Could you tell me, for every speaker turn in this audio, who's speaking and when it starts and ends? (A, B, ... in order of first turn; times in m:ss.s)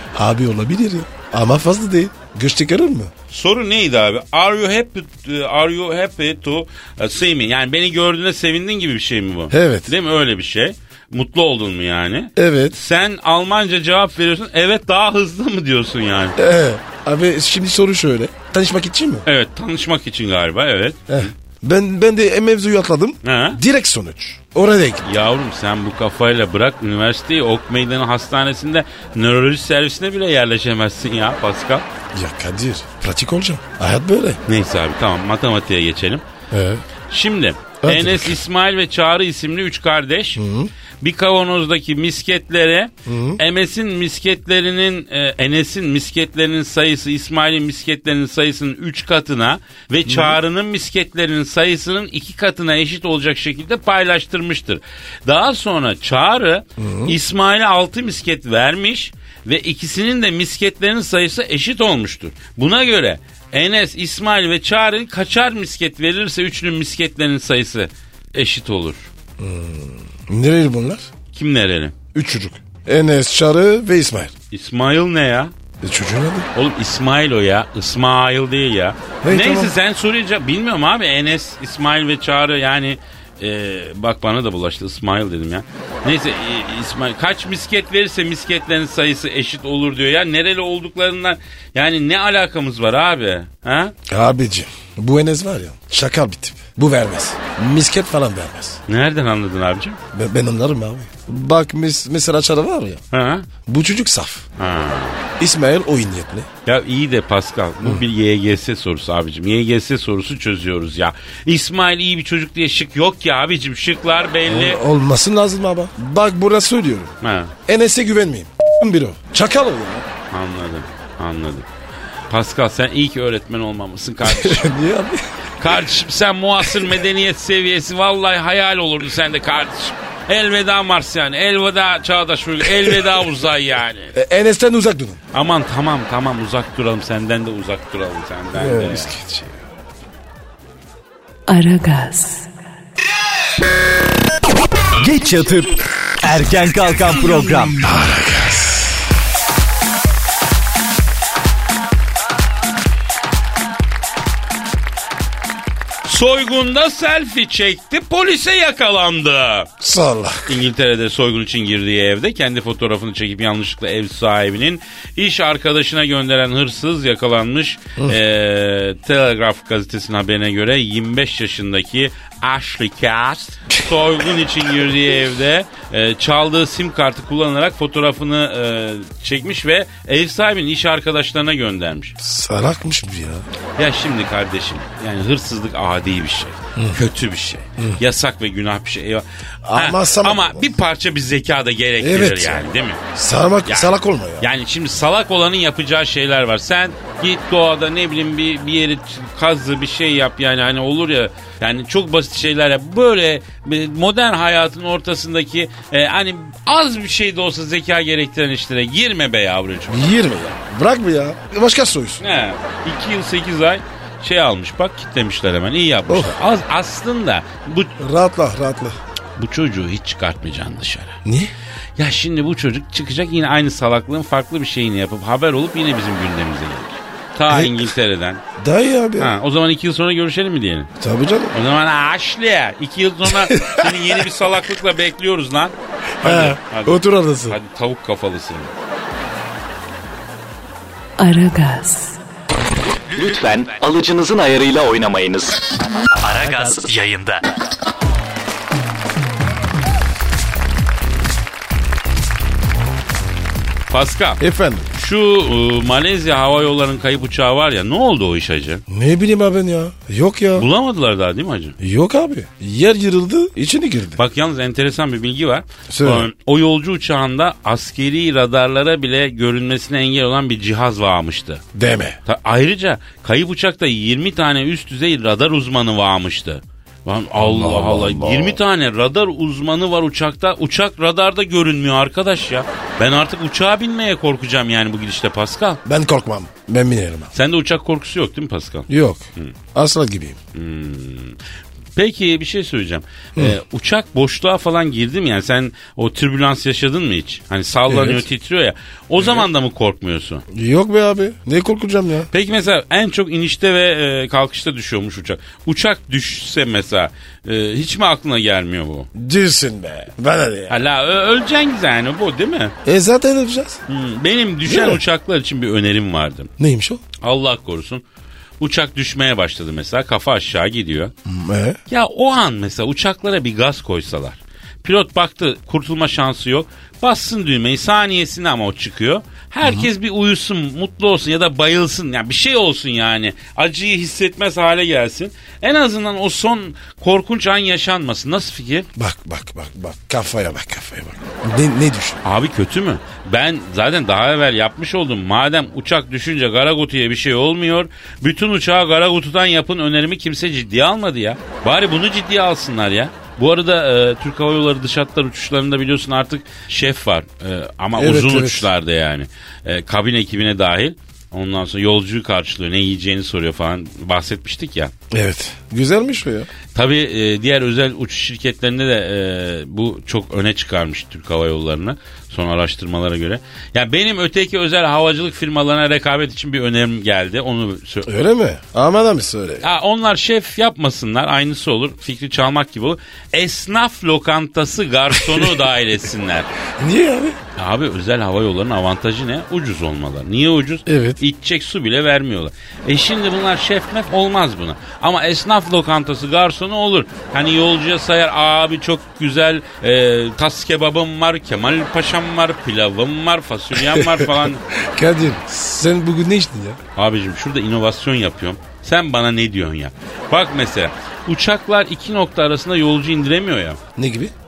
0:00.1-0:03.1 A
0:03.3-0:16.4 B
0:09.5-0:09.9 A
0:12.4-0:12.8 A
0:16.4-0:19.3 A
0:19.2-0:21.3 B
0:21.1-0:25.1 A
0:23.2-0:23.6 B
0:25.0-0:31.9 B
0:32.1-0:34.4 A
0:34.5-0:36.2 B
0:36.5-0:36.8 A
0:37.1-0:40.4 B
0:37.8-0:38.4 A
0:40.4-0:40.7 A
0:41.0-1:09.1 B
0:43.0-0:43.4 A
0:50.1-0:50.4 A
0:56.8-0:57.2 A
1:09.4-1:11.1 A
1:11.3-1:12.0 B
1:12.1-1:14.3 A
1:14.5-1:15.5 B
1:15.8-1:16.5 A
1:16.6-1:33.9 B
1:19.2-1:19.8 A
1:34.1-1:38.8 A
1:38.9-1:40.0 B
1:40.1-1:43.0 A
1:43.1-1:43.5 B
1:43.7-1:44.5 A
1:44.6-1:45.2 B
1:45.4-1:46.5 A
1:46.7-1:54.8 B
1:54.5-1:57.2 A
1:57.2-1:57.5 B
1:57.7-2:00.1 A
2:00.3-2:01.7 B
2:02.3-2:04.7 B
2:04.2-2:05.2 A
2:05.6-2:14.2 B
2:12.7-2:13.0 A
2:14.1-2:15.2 A
2:15.3-2:19.1 B
2:18.6-2:19.6 A
2:21.5-2:22.5 C
2:25.0-2:27.8 D
2:27.8-2:29.0 A
2:36.1-2:39.7 B
2:39.8-2:40.6 A
2:40.5-3:02.2 B
3:02.2-3:03.5 A
3:03.8-3:13.0 B
3:06.8-3:07.0 A
3:09.6-3:10.7 A
3:12.0-3:14.5 A
3:13.7-3:30.2 B
3:29.9-3:32.2 A
3:32.2-3:38.0 B
3:36.1-3:36.4 A
3:38.0-3:39.0 A
3:39.4-3:41.2 B
3:41.2-3:41.5 A
3:42.0-3:48.4 B
3:47.5-3:47.9 A
3:48.6-3:49.3 A
3:49.2-3:50.9 B
3:51.0-3:51.6 A
3:51.5-3:58.7 B
3:53.4-3:53.9 A
3:56.2-3:57.6 A
4:01.2-4:02.2 C
4:03.1-4:05.6 E
4:06.2-4:07.4 D
4:06.4-4:06.9 E
4:13.9-4:14.4 B
4:14.4-4:14.9 A
4:14.9-4:18.8 B
4:18.9-4:20.7 A
4:20.6-4:21.8 B
4:21.8-4:24.2 A
4:24.2-4:31.6 B
4:25.9-4:26.3 A
4:31.7-4:32.2 A
4:32.3-4:45.8 B
4:37.4-4:38.6 A
4:45.8-4:47.3 A
4:47.3-4:49.6 B
4:48.9-4:50.4 A
4:50.5-4:51.4 B
4:52.0-5:00.4 B
4:57.9-4:58.2 A
4:59.2-4:59.5 A
5:00.5-5:02.3 A
5:02.3-5:09.1 B
5:09.1-5:10.8 A
5:10.7-5:12.7 B
5:12.8-5:13.8 A
5:13.9-5:16.5 B
5:14.6-5:15.0 A
5:16.6-5:17.0 A
5:17.2-5:18.0 B
5:18.6-5:21.1 B
5:21.3-5:21.8 A
5:21.9-5:38.9 B
5:29.6-5:29.9 A
5:39.0-5:42.2 A
5:42.2-6:04.9 B
5:58.0-5:58.7 A
6:05.1-6:06.5 A
6:06.7-6:18.1 B
6:18.0-6:19.7 A
6:19.6-6:26.5 B
6:26.8-6:27.4 A
6:27.6-6:44.6 B
6:30.9-6:31.2 A
6:43.8-6:46.8 A
6:47.0-6:53.8 B
6:54.0-6:54.3 A